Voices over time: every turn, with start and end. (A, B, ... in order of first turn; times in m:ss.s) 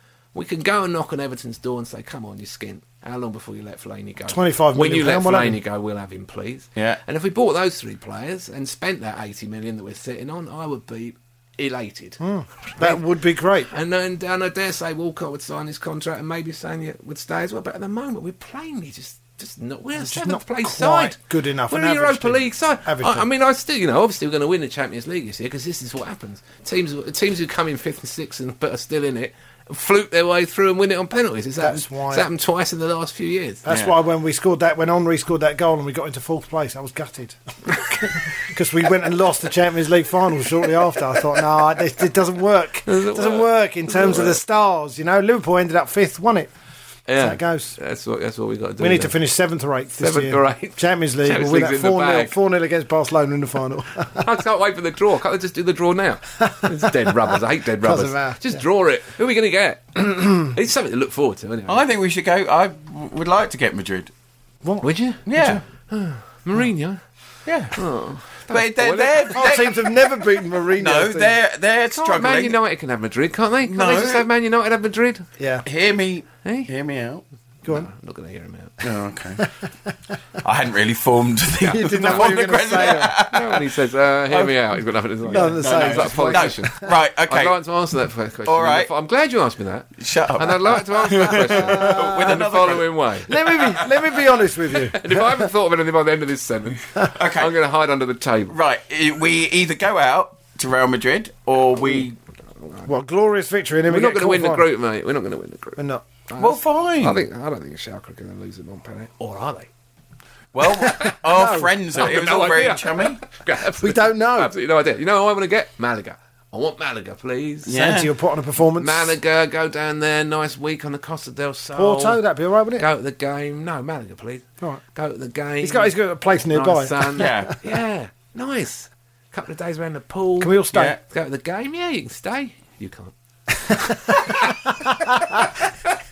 0:00.3-0:13.0 A
0:04.3-0:05.6 B
0:06.8-0:07.0 C
0:12.2-0:13.7 B
0:13.7-0:33.6 A
0:20.0-0:23.3 B
0:31.6-0:32.3 B
0:33.6-0:46.5 B
0:33.7-0:34.0 C
0:42.9-0:44.4 A
0:47.1-0:49.2 A
0:47.2-0:47.8 B
0:48.8-0:54.3 B
0:49.9-0:52.3 A
0:54.1-1:01.9 A
0:56.5-0:56.9 B
0:57.8-0:58.6 B
1:01.7-1:04.1 C
1:04.8-1:07.0 A
1:05.3-1:05.6 C
1:07.4-1:07.8 C
1:07.7-1:09.5 A
1:08.4-1:12.6 C
1:09.3-1:11.4 B
1:11.9-1:15.3 A
1:13.6-1:14.3 C
1:15.4-1:15.6 B
1:15.6-1:17.2 C
1:16.4-1:16.7 A
1:17.6-1:18.8 A
1:18.8-1:19.4 C
1:19.4-1:19.7 B
1:20.4-1:23.7 C
1:21.6-1:23.1 B
1:21.8-1:33.4 A
1:24.3-1:24.6 C
1:25.3-1:27.0 B
1:25.3-1:27.6 C
1:28.4-1:28.9 C
1:30.0-1:33.8 C
1:31.4-1:32.4 B
1:33.3-1:35.5 B
1:34.7-1:38.6 A
1:37.0-1:37.5 C
1:38.5-1:42.2 C
1:41.9-1:42.9 A
1:42.9-1:44.7 B
1:43.9-1:49.7 A
1:45.8-1:46.0 B
1:46.4-1:47.2 C
1:50.5-1:53.2 C
1:50.8-1:52.8 B
1:52.0-1:57.9 A
1:53.7-1:54.5 B
1:57.7-1:58.1 C
1:57.7-1:59.2 B
1:58.8-2:02.2 A
2:01.7-2:02.8 B
2:02.7-2:06.0 A
2:05.6-2:07.5 B
2:06.5-2:13.1 A
2:07.2-2:07.6 C
2:10.4-2:11.0 B
2:10.7-2:11.0 C
2:13.7-2:15.6 B
2:13.8-2:14.9 A